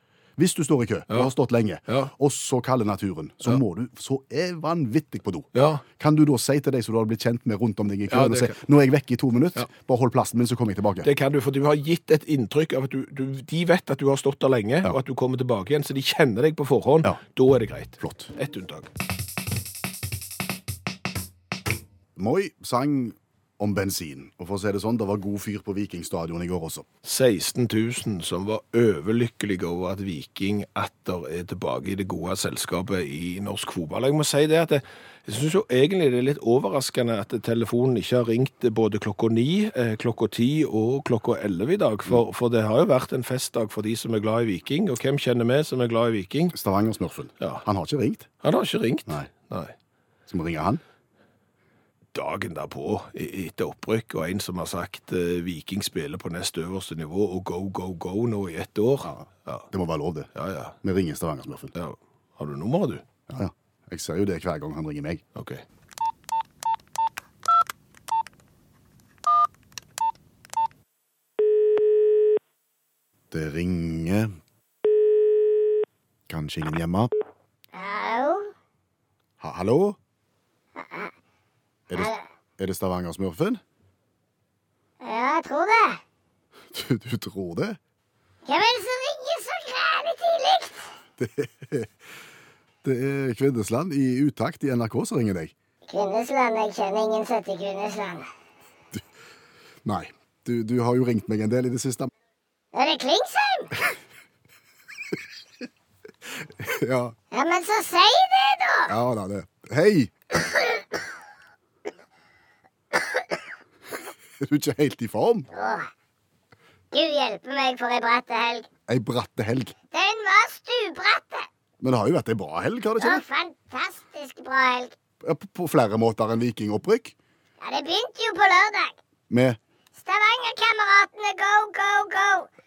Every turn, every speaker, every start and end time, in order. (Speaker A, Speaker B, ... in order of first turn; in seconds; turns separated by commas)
Speaker A: 0.4-11.1, Speaker B: 1.9-2.1, Speaker B: 5.5-5.8, Speaker B: 8.1-8.6, Speaker B: 11.0-18.9, Speaker A: 18.0-18.3, Speaker A: 22.2-26.9, Speaker B: 27.1-46.5, Speaker A: 46.5-48.3, Speaker B: 48.4-49.7, Speaker A: 50.3-50.8, Speaker B: 52.1-59.7, Speaker A: 59.0-61.8, Speaker B: 60.3-60.8, Speaker B: 61.8-63.0, Speaker A: 63.3-65.2, Speaker B: 65.4-65.6, Speaker A: 73.3-74.4, Speaker A: 76.3-77.1, Speaker C: 77.7-78.5, Speaker A: 79.4-80.0, Speaker C: 80.8-81.1, Speaker A: 81.9-83.6, Speaker C: 82.0-82.2, Speaker C: 85.0-86.0, Speaker A: 86.7-87.8, Speaker C: 88.5-90.8, Speaker A: 91.2-91.9, Speaker A: 92.8-95.5, Speaker C: 95.9-98.3, Speaker A: 99.8-102.1, Speaker C: 102.7-103.8, Speaker A: 106.4-107.2, Speaker C: 107.3-108.9, Speaker A: 108.9-110.1, Speaker C: 110.4-110.8, Speaker A: 114.4-115.5, Speaker C: 115.5-115.9, Speaker C: 116.9-118.7, Speaker A: 118.9-119.8, Speaker C: 119.9-121.5, Speaker A: 121.8-123.2, Speaker C: 123.0-125.0, Speaker A: 125.2-127.2, Speaker C: 127.6-129.0, Speaker A: 129.3-129.6, Speaker C: 130.0-132.5